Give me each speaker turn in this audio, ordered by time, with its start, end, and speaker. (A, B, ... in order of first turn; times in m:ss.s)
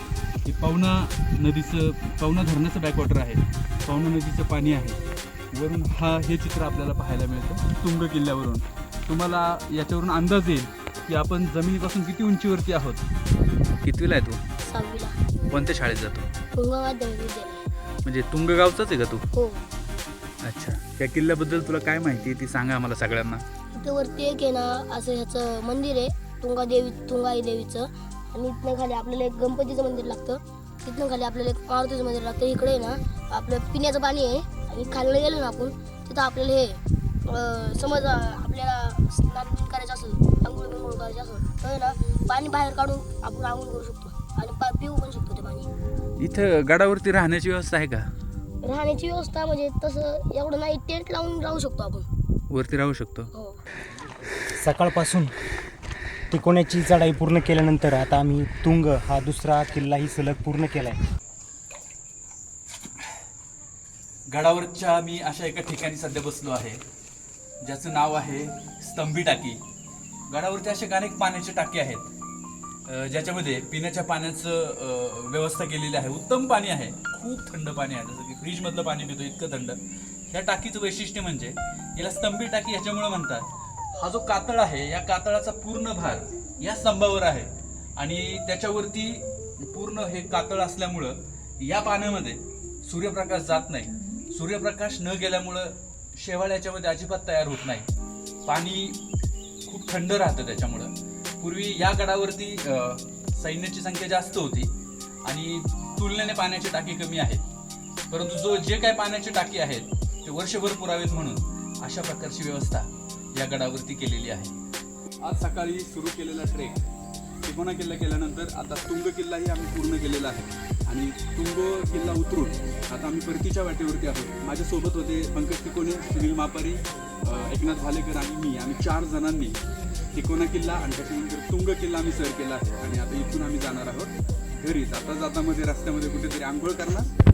0:00.4-0:05.0 A
0:05.5-0:13.0 A
0:13.8-0:14.4 A
0:14.6-0:15.2 B
0:15.5-0:16.3 A
0:16.5-0:17.6 B
0:18.0-0:19.2 A
0:19.3-0:19.6 B
0:20.4-0:23.4 A
0:23.7-0:45.7 B
0:46.2-0:48.1 A
0:48.6-0:52.1 B
0:52.5-0:53.3 A
0:53.3-0:53.6 B
0:54.6-0:55.3 C
0:56.3-1:01.0 C
1:04.3-1:06.8 A
1:07.6-1:09.6 A
1:10.3-1:12.1 A
1:12.8-1:37.9 A
1:38.4-1:39.0 A
1:39.6-1:44.7 A
1:45.2-1:47.4 A
1:48.1-1:54.6 A
1:55.2-1:56.8 A
1:57.4-2:09.6 A
2:10.1-2:17.1 A